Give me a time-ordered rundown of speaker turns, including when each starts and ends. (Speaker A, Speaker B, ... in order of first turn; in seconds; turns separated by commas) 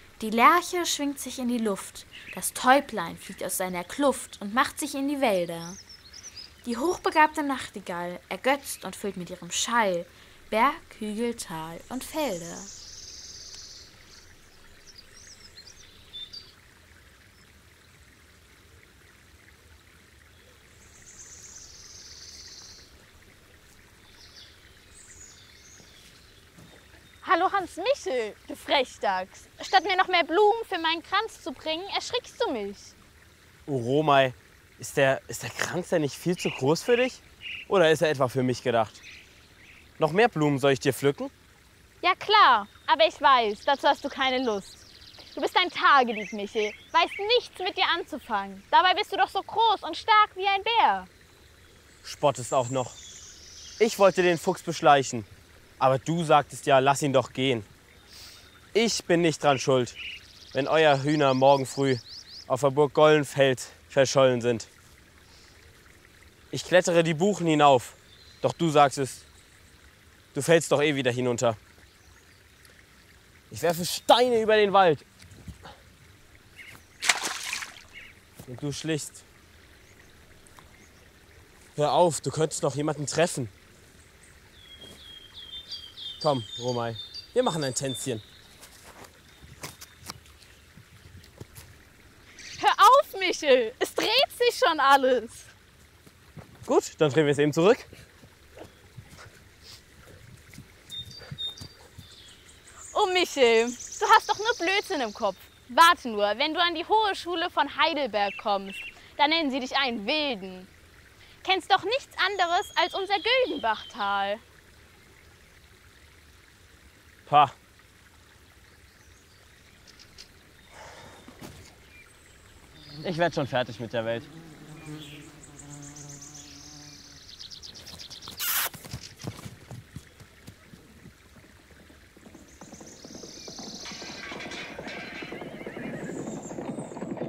Speaker A: 0.2-5.8, Speaker A: 6.6-12.7, Speaker B: 27.2-32.9, Speaker C: 33.7-39.0, Speaker C: 40.0-41.3, Speaker B: 42.0-51.1, Speaker C: 52.0-53.0, Speaker C: 53.8-55.3, Speaker C: 55.8-57.7, Speaker C: 58.7-60.0, Speaker C: 60.5-64.7, Speaker C: 66.5-69.2, Speaker C: 70.3-71.6, Speaker C: 73.5-75.1, Speaker C: 78.5-79.2, Speaker C: 81.8-83.5, Speaker C: 86.2-88.2, Speaker B: 92.6-95.5, Speaker C: 96.7-97.9, Speaker B: 102.9-110.7, Speaker B: 111.4-114.4, Speaker C: 117.3-117.5, Speaker C: 123.0-124.3